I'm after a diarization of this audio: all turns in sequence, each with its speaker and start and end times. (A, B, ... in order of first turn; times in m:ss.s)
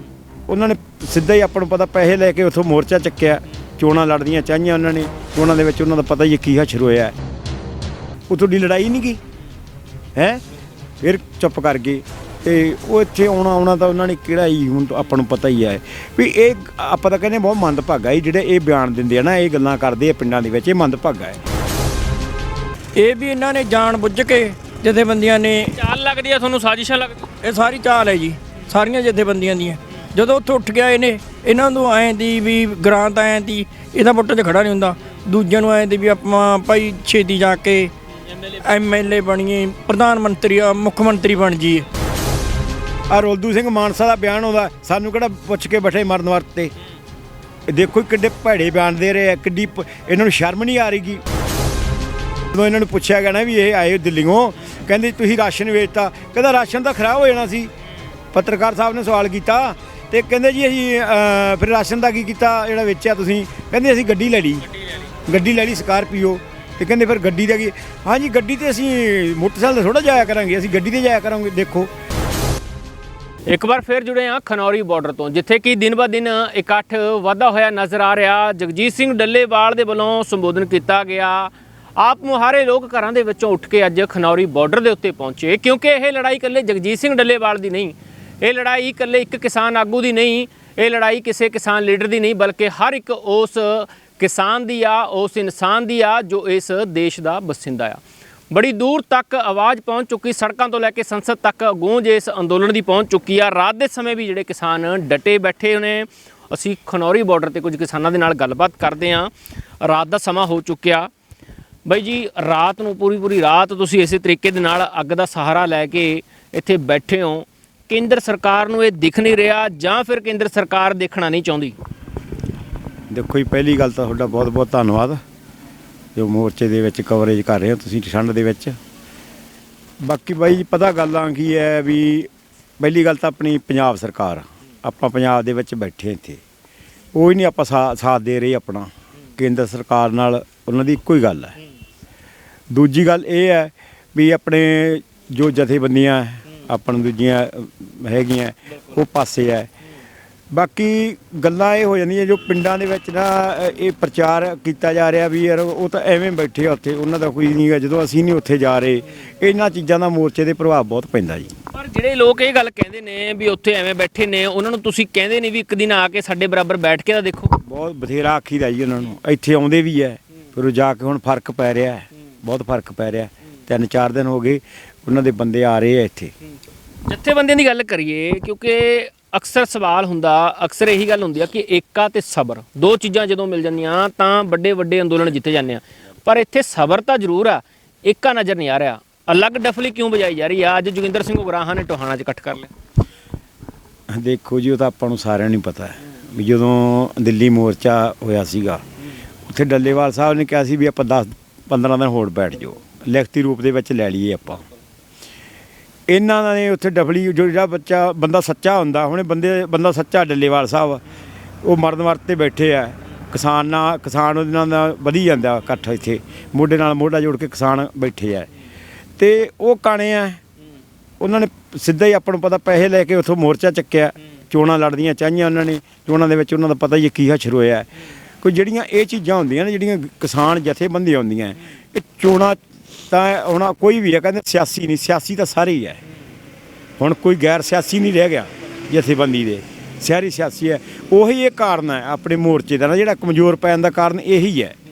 0:00.5-0:07.1 A
0:08.3-0:09.2 A
0:10.2-0:10.4 A
0:11.0-0:21.4 A
0:23.0-0:25.7 B
0:25.7-0:27.3 C
0:27.4-0:37.9 B
0:38.6-0:41.9 B
0:43.1-0:46.7 A
0:47.7-0:51.2 A
0:52.5-0:57.7 A
0:58.3-1:04.6 A
1:05.2-1:11.9 A
1:13.5-1:38.0 C
1:38.5-1:49.3 C
1:49.8-1:51.1 C
1:51.8-2:01.7 C
2:03.1-2:05.2 A
2:06.2-2:08.8 A
2:10.0-2:16.4 A
2:17.1-2:21.5 A
2:22.7-2:29.7 A
2:30.5-2:41.5 A
2:41.7-2:47.5 C
2:47.6-2:56.3 A
2:57.1-3:12.7 C
3:14.1-3:18.8 A
3:19.5-3:24.6 A
3:26.1-3:31.0 A
3:31.6-3:38.5 A
3:39.2-3:40.4 A
3:41.2-3:47.9 A
3:48.4-3:56.0 A
3:57.0-4:04.8 A